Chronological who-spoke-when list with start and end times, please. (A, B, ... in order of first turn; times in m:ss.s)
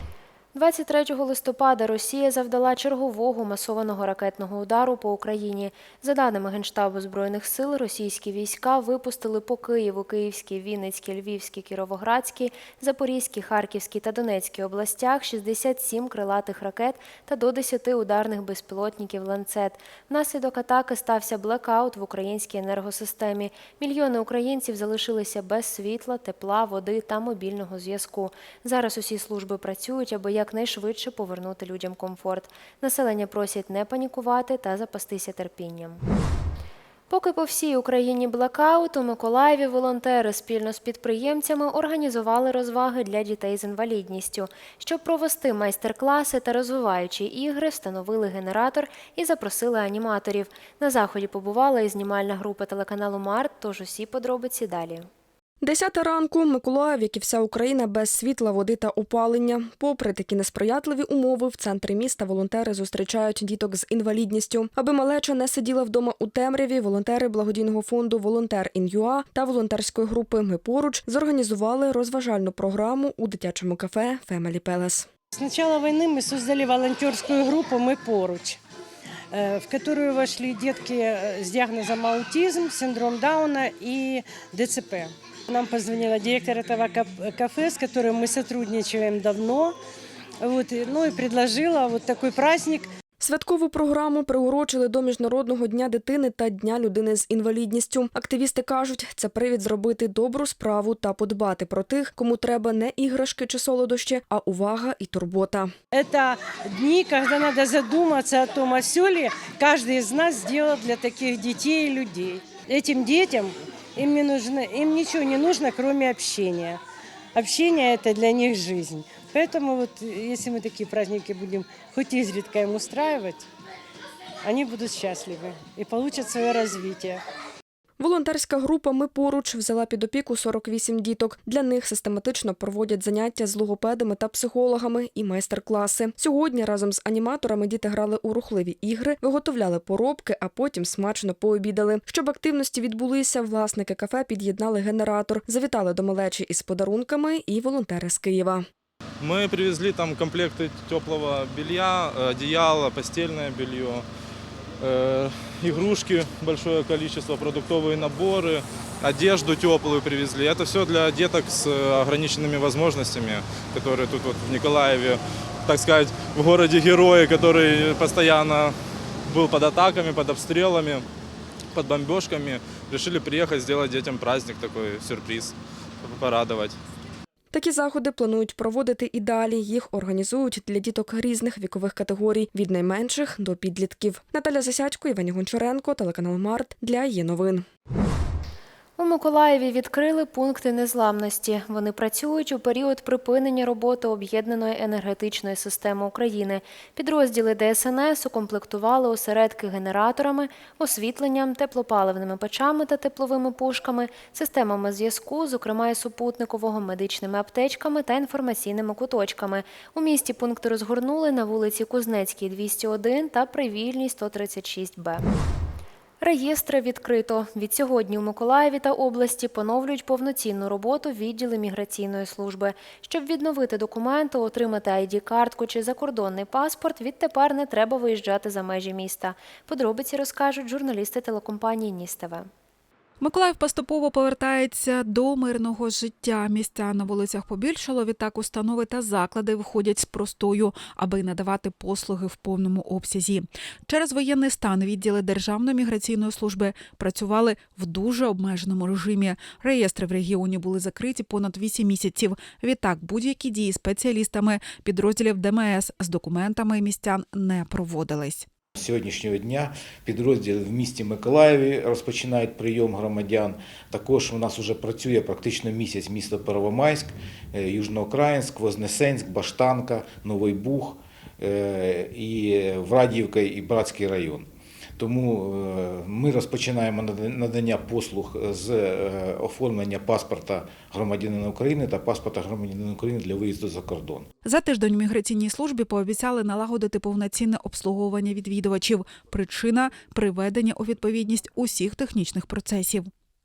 0:00.5-0:36.0 A
0:37.1-0:55.0 A
0:55.6-1:15.1 B
1:15.3-1:18.6 C
1:19.3-1:29.8 C
1:30.4-1:32.9 C
1:33.2-1:45.7 B
1:45.9-1:56.8 C
1:57.3-2:03.5 C
2:04.4-2:07.2 C
2:08.0-2:28.6 B
2:29.2-2:34.0 D
2:34.8-2:48.7 D
2:49.3-2:51.0 D
2:51.7-2:56.7 D
2:57.5-3:07.6 B
3:09.0-3:35.2 A
3:36.2-3:52.5 A
3:53.2-4:18.4 E
4:18.8-4:34.5 F
4:35.0-4:44.3 F
4:44.4-4:53.1 E